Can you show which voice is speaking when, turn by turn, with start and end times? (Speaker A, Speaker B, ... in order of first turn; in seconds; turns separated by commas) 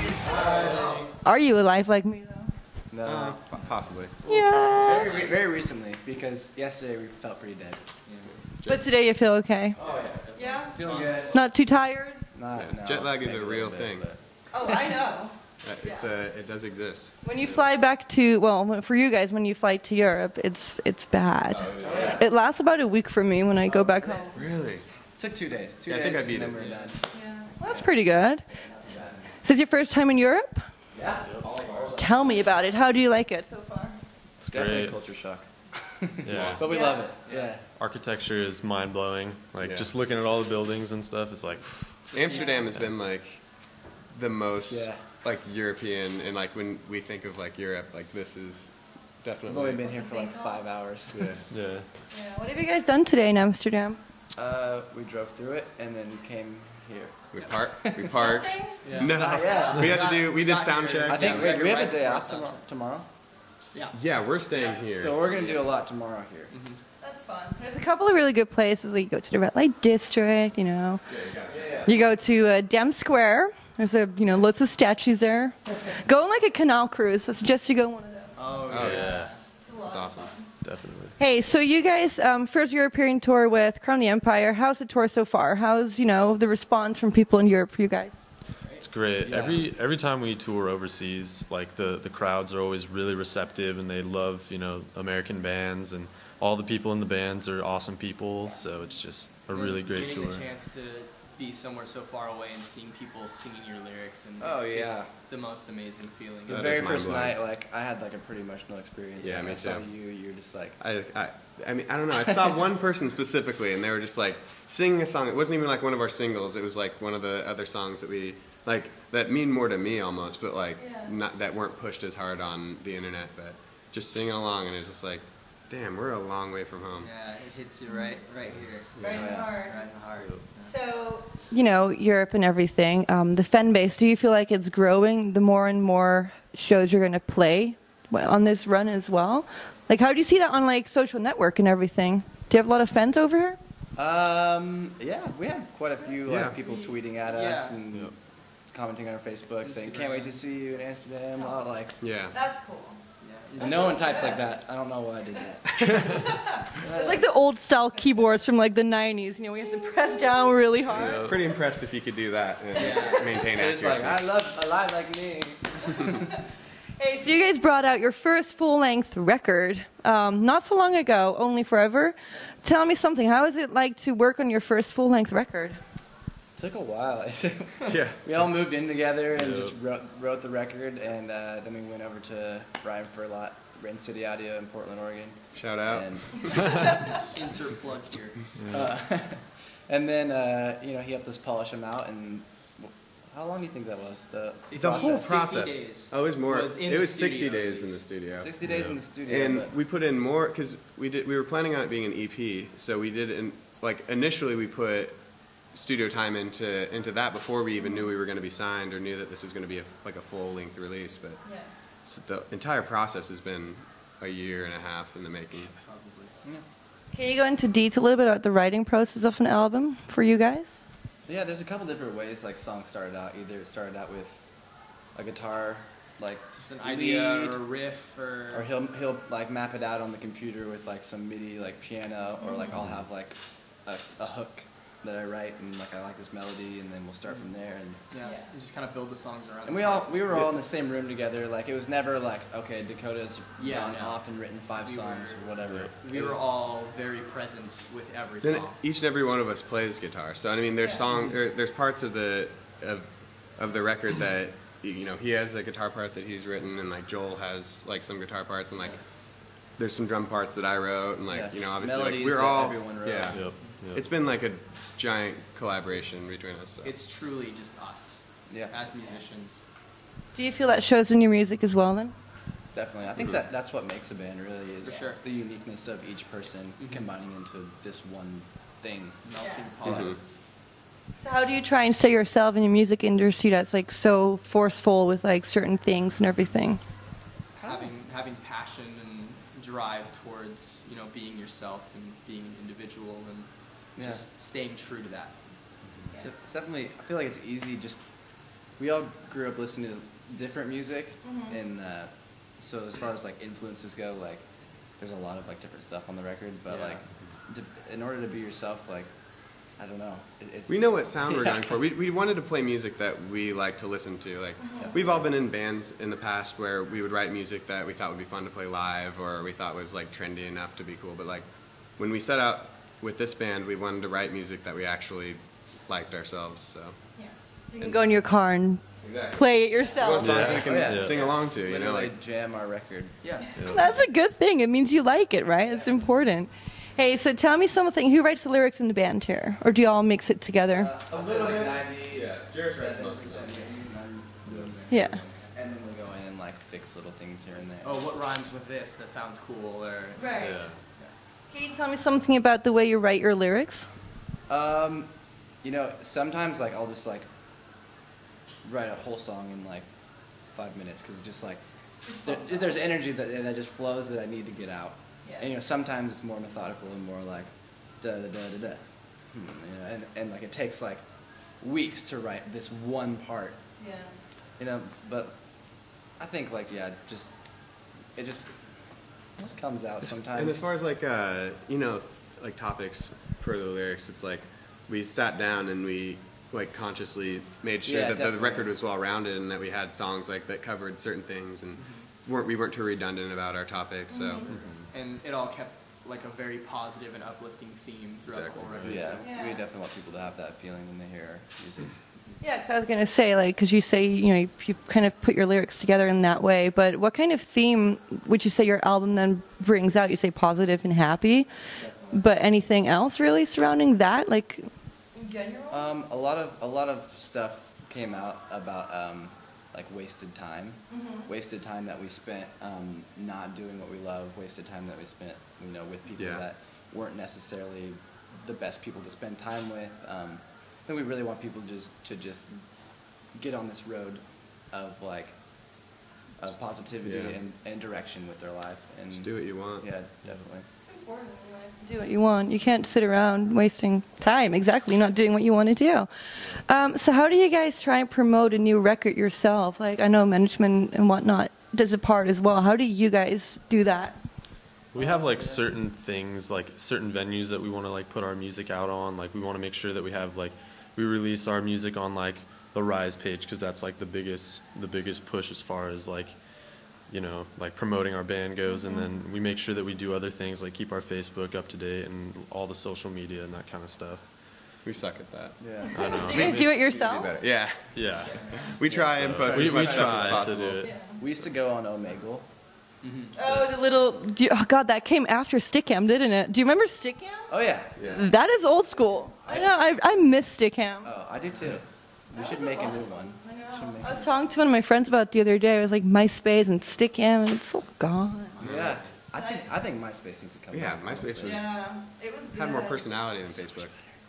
Speaker A: 0.2-1.1, Speaker B: 0.3-0.9, Speaker C: 0.4-0.8, Speaker D: 1.2-2.5, Speaker A: 2.9-7.8, Speaker B: 3.0-4.2, Speaker D: 4.3-4.9, Speaker C: 4.6-5.4, Speaker C: 8.1-8.3, Speaker B: 8.4-8.8, Speaker D: 8.6-9.8, Speaker A: 9.8-11.4, Speaker C: 9.8-11.6, Speaker D: 10.3-12.2, Speaker A: 12.3-14.2, Speaker B: 12.5-14.1, Speaker D: 14.5-16.1, Speaker B: 15.6-17.6, Speaker D: 17.2-24.4, Speaker B: 21.5-22.2, Speaker A: 21.8-22.3, Speaker A: 23.6-24.5, Speaker B: 24.3-24.9, Speaker A: 25.2-29.4, Speaker B: 25.9-26.7, Speaker C: 26.6-26.9, Speaker D: 27.1-28.8, Speaker D: 29.4-30.6, Speaker A: 30.9-32.5, Speaker E: 31.2-31.6, Speaker D: 32.0-34.0, Speaker E: 34.4-35.0, Speaker A: 34.5-37.7, Speaker E: 36.2-36.7, Speaker B: 36.3-36.8, Speaker D: 36.7-37.0, Speaker C: 37.0-37.5, Speaker E: 37.8-42.9, Speaker B: 39.6-39.9, Speaker B: 42.1-49.9, Speaker A: 44.7-45.0, Speaker A: 49.5-51.4, Speaker D: 50.0-50.6, Speaker B: 51.1-51.5, Speaker E: 51.5-51.9, Speaker D: 52.1-54.0, Speaker A: 54.4-58.1, Speaker B: 57.3-61.5, Speaker D: 58.1-58.8, Speaker C: 58.8-62.6, Speaker A: 59.1-59.9, Speaker D: 59.5-59.8, Speaker A: 61.1-63.1, Speaker B: 63.9-65.2, Speaker C: 64.5-65.7, Speaker A: 64.9-66.5, Speaker C: 66.5-66.8, Speaker D: 67.0-71.2, Speaker B: 71.1-71.9, Speaker A: 71.5-72.0, Speaker D: 71.8-78.5, Speaker C: 78.4-79.4, Speaker B: 78.7-79.1, Speaker E: 78.7-79.3, Speaker D: 79.6-80.4, Speaker B: 79.8-80.4, Speaker E: 80.6-81.1, Speaker D: 81.2-88.2, Speaker E: 88.8-100.5, Speaker A: 89.2-89.7, Speaker C: 99.5-106.9, Speaker A: 104.4-105.1, Speaker B: 106.5-107.4, Speaker A: 106.5-110.8, Speaker B: 109.2-109.9, Speaker B: 110.8-127.1, Speaker D: 120.8-121.1, Speaker C: 127.0-130.7, Speaker D: 127.9-128.2, Speaker B: 129.0-129.3, Speaker D: 129.0-129.8, Speaker A: 129.0-129.6, Speaker E: 130.1-130.4, Speaker D: 130.6-143.6, Speaker A: 143.9-152.0, Speaker B: 146.3-146.6, Speaker C: 147.1-147.8, Speaker C: 149.6-150.8, Speaker B: 152.0-152.4, Speaker D: 152.3-153.0, Speaker C: 153.2-154.3, Speaker A: 153.6-156.1, Speaker D: 153.6-154.5, Speaker D: 156.3-161.3, Speaker A: 156.7-157.3, Speaker E: 160.9-161.3, Speaker B: 161.1-164.3, Speaker C: 162.8-163.3, Speaker A: 162.8-166.2, Speaker D: 162.9-163.2, Speaker D: 167.0-175.8, Speaker A: 176.6-186.9, Speaker B: 177.9-178.2, Speaker E: 179.3-179.8, Speaker B: 185.5-186.6, Speaker C: 187.1-188.5, Speaker E: 188.6-188.9, Speaker A: 188.7-195.3, Speaker C: 194.7-198.1, Speaker B: 194.8-215.7, Speaker A: 198.3-199.8, Speaker E: 198.6-199.0, Speaker D: 207.8-208.1, Speaker C: 215.5-216.3, Speaker D: 217.1-220.8, Speaker A: 221.2-227.6, Speaker C: 226.5-228.7, Speaker A: 228.5-238.0, Speaker D: 232.4-232.7, Speaker C: 238.1-240.6, Speaker D: 238.2-238.5, Speaker A: 239.6-246.7, Speaker C: 243.6-248.8, Speaker E: 245.7-245.9, Speaker B: 248.4-266.9, Speaker A: 261.3-263.5, Speaker E: 263.2-264.1, Speaker C: 266.8-269.6, Speaker A: 268.5-268.8, Speaker D: 270.3-272.1, Speaker A: 272.7-279.2, Speaker C: 274.8-275.2, Speaker C: 276.8-277.1, Speaker C: 279.2-280.2, Speaker D: 279.4-279.7, Speaker A: 279.8-280.1, Speaker B: 279.8-280.2, Speaker D: 281.2-286.8, Speaker C: 287.6-295.4, Speaker A: 287.6-287.9, Speaker A: 294.0-294.2, Speaker A: 296.2-311.8, Speaker D: 301.2-301.6, Speaker C: 306.7-307.0, Speaker B: 310.7-328.1, Speaker D: 314.6-314.9, Speaker A: 314.8-315.3, Speaker D: 327.2-330.5, Speaker B: 329.0-332.1, Speaker E: 330.2-331.2, Speaker A: 330.6-333.3, Speaker C: 333.2-333.5, Speaker E: 333.6-334.0, Speaker D: 333.6-340.9, Speaker A: 335.6-336.1, Speaker A: 340.7-348.1, Speaker B: 341.1-343.9, Speaker D: 344.9-345.2, Speaker C: 347.8-351.1, Speaker D: 350.2-350.6, Speaker E: 350.4-350.8, Speaker D: 351.5-353.9, Speaker A: 354.5-357.3, Speaker A: 358.6-371.1, Speaker A: 371.6-373.6, Speaker D: 373.8-374.1, Speaker A: 374.6-378.7, Speaker A: 379.2-380.6, Speaker B: 380.0-394.5, Speaker A: 387.8-388.7, Speaker C: 391.8-392.1, Speaker D: 394.1-394.5, Speaker E: 394.5-394.9, Speaker C: 394.9-399.3, Speaker B: 398.3-398.6, Speaker E: 398.5-399.1, Speaker A: 398.8-402.4, Speaker D: 399.2-399.6, Speaker D: 402.4-411.5, Speaker A: 411.8-412.2, Speaker D: 412.1-415.9, Speaker A: 415.7-440.7, Speaker D: 420.9-421.2, Speaker B: 426.2-426.4, Speaker B: 437.0-437.4, Speaker B: 439.1-439.9, Speaker D: 440.8-454.2, Speaker E: 454.9-474.4, Speaker A: 454.9-455.7, Speaker D: 468.7-469.1, Speaker B: 474.8-475.6, Speaker A: 475.6-476.0, Speaker E: 475.9-476.8, Speaker D: 476.0-477.3, Speaker B: 476.3-480.9, Speaker E: 477.9-481.4, Speaker C: 478.1-478.7, Speaker A: 478.8-480.2, Speaker C: 479.6-480.2, Speaker D: 480.8-481.1, Speaker A: 481.1-482.5, Speaker C: 483.0-483.4, Speaker D: 483.4-491.1, Speaker A: 487.5-488.2, Speaker B: 488.0-488.3, Speaker A: 489.4-490.0, Speaker A: 491.0-494.4, Speaker D: 492.3-499.6, Speaker A: 498.6-501.7, Speaker B: 498.6-499.0, Speaker B: 500.7-501.9, Speaker D: 501.4-503.0, Speaker B: 502.5-503.9, Speaker A: 503.5-503.9